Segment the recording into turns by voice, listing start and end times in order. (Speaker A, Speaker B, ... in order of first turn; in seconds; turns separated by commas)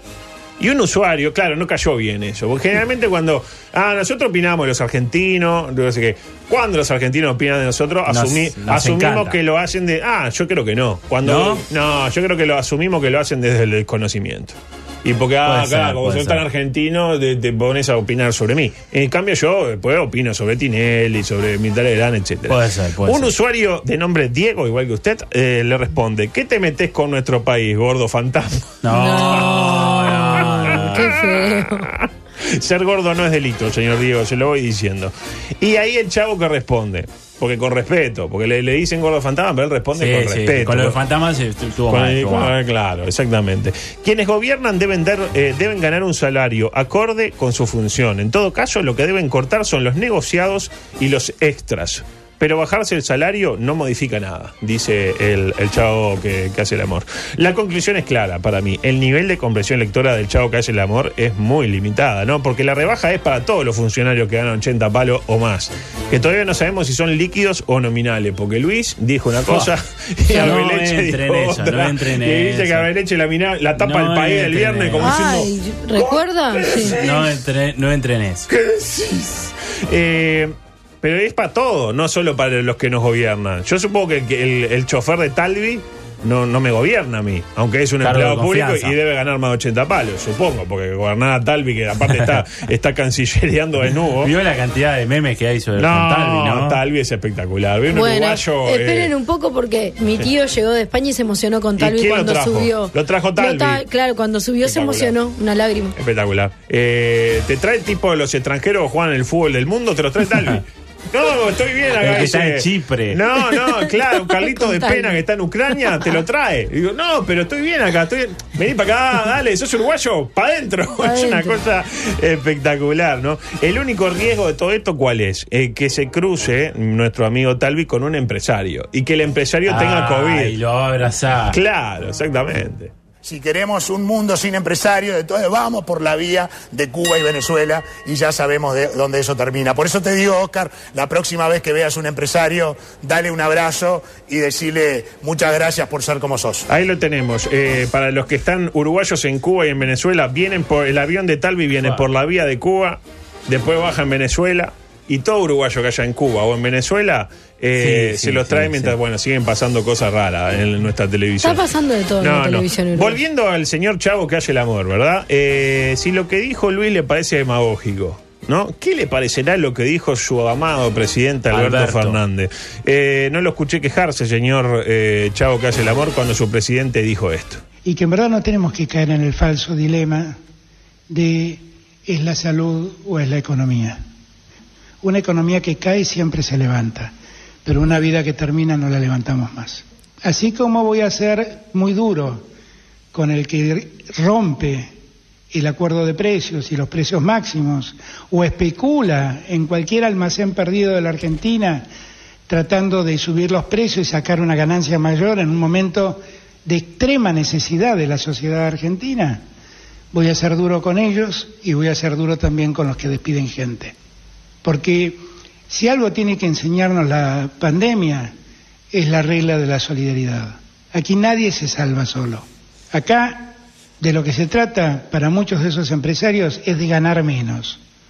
Speaker A: 0.6-41.0, Speaker B: 8.1-9.4, Speaker B: 11.2-11.6, Speaker B: 15.4-16.4, Speaker B: 22.5-23.3, Speaker B: 28.8-31.2, Speaker C: 28.9-31.9, Speaker B: 40.0-42.5, Speaker A: 41.9-77.4, Speaker B: 69.5-69.7, Speaker B: 70.3-72.9, Speaker B: 73.8-75.2, Speaker C: 75.0-77.0, Speaker B: 76.9-78.5, Speaker A: 78.5-94.3, Speaker B: 88.0-89.0, Speaker B: 94.2-96.8, Speaker A: 95.8-99.1, Speaker C: 97.9-106.0, Speaker A: 101.8-103.8, Speaker A: 104.6-105.2, Speaker A: 106.0-130.6, Speaker B: 112.0-113.2, Speaker C: 114.6-115.2, Speaker C: 121.0-121.6, Speaker B: 129.7-131.6, Speaker A: 131.5-132.9, Speaker D: 133.2-146.7, Speaker A: 146.7-161.7, Speaker B: 151.8-152.1, Speaker B: 157.8-159.0, Speaker C: 161.4-163.2, Speaker A: 162.2-177.6, Speaker B: 171.5-172.2, Speaker E: 177.8-180.4, Speaker E: 181.1-184.0, Speaker E: 185.0-187.1, Speaker E: 187.7-192.5, Speaker E: 193.1-194.9, Speaker E: 195.5-201.9, Speaker E: 202.5-209.4, Speaker E: 210.1-213.9, Speaker E: 214.6-218.3, Speaker E: 218.9-227.8